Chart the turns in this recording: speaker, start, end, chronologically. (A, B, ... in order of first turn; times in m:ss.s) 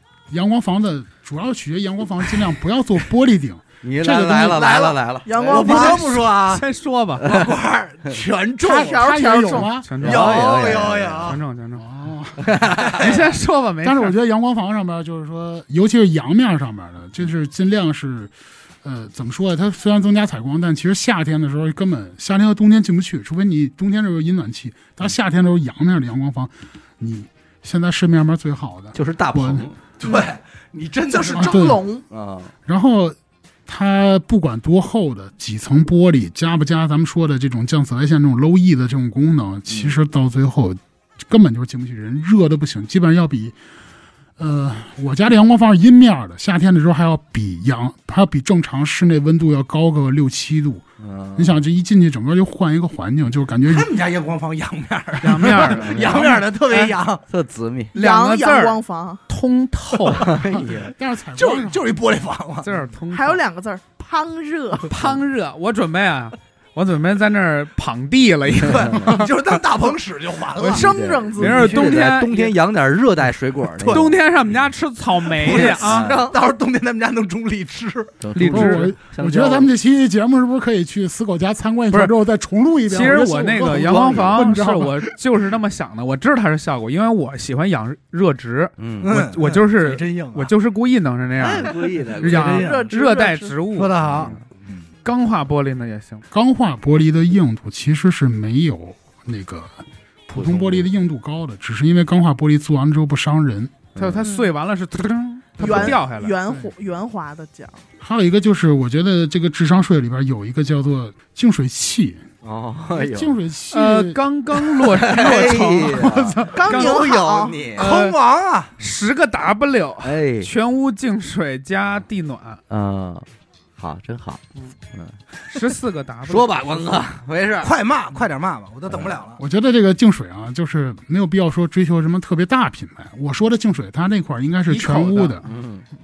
0:00.3-0:04.8 A
0:03.8-0:06.0 B
0:04.5-0:06.6 C
0:05.3-0:06.2 D
0:06.3-0:07.3 E
0:07.2-0:09.0 C
0:08.6-0:09.7 D
0:08.7-0:10.0 A
0:09.8-0:10.7 E
0:10.0-0:11.4 C
0:10.0-0:11.4 B
0:11.2-0:11.8 E
0:11.8-0:13.0 A
0:12.5-0:12.9 B
0:12.7-0:13.2 C
0:12.8-0:14.2 E
0:13.8-0:29.7 A
0:28.9-0:29.8 B
0:30.0-0:31.7 C
0:31.1-0:32.0 D
0:31.4-0:31.8 A
0:32.1-0:32.5 B
0:32.7-0:33.2 A
0:33.7-0:43.6 A
0:39.7-0:40.0 B
0:44.4-0:50.8 A
0:51.0-0:51.6 B
0:51.4-0:53.9 A
0:53.7-0:57.2 C
0:55.2-0:57.0 E
0:57.3-0:57.9 B
0:57.9-0:59.2 D
0:57.9-1:00.3 E
1:00.2-1:00.9 B
1:00.5-1:01.8 A
1:01.4-1:02.7 C
1:02.6-1:03.4 E
1:03.1-1:04.9 D
1:04.9-1:09.3 E
1:04.9-1:05.2 B
1:08.6-1:10.9 C
1:08.7-1:09.2 B
1:10.6-1:11.9 D
1:10.6-1:14.1 B
1:11.4-1:12.5 E
1:13.8-1:14.1 C
1:13.8-1:16.2 E
1:15.3-1:18.2 C
1:15.4-1:16.4 B
1:18.2-1:19.7 B
1:18.3-1:18.9 E
1:18.4-1:25.1 A
1:21.9-1:22.2 E
1:22.9-1:34.4 E
1:23.8-1:24.4 B
1:28.8-1:29.2 B
1:29.0-1:30.5 C
1:31.4-1:32.8 B
1:32.3-1:33.6 D
1:33.7-1:34.9 C
1:34.1-1:34.4 B
1:35.0-1:36.2 E
1:36.3-1:43.7 A
1:40.4-1:40.9 B
1:44.0-1:44.2 B
1:44.0-1:46.4 E
1:44.2-1:44.5 D
1:45.6-1:47.8 D
1:45.6-1:45.9 A
1:46.5-1:46.7 A
1:48.0-1:52.2 A
1:52.4-1:53.4 B
1:52.9-1:55.0 A
1:53.7-1:57.0 E
1:54.9-1:57.9 B
1:56.0-1:56.5 A
1:56.5-1:57.6 D
1:57.8-1:58.8 C
1:57.8-1:58.2 E
1:58.8-2:02.6 E
2:00.0-2:00.5 B
2:02.7-2:05.2 B
2:05.5-2:07.0 E
2:06.2-2:07.7 B
2:07.6-2:09.4 C
2:08.9-2:09.2 B
2:09.4-2:15.4 A
2:14.7-2:15.0 E
2:15.0-2:15.2 C
2:15.4-2:15.9 B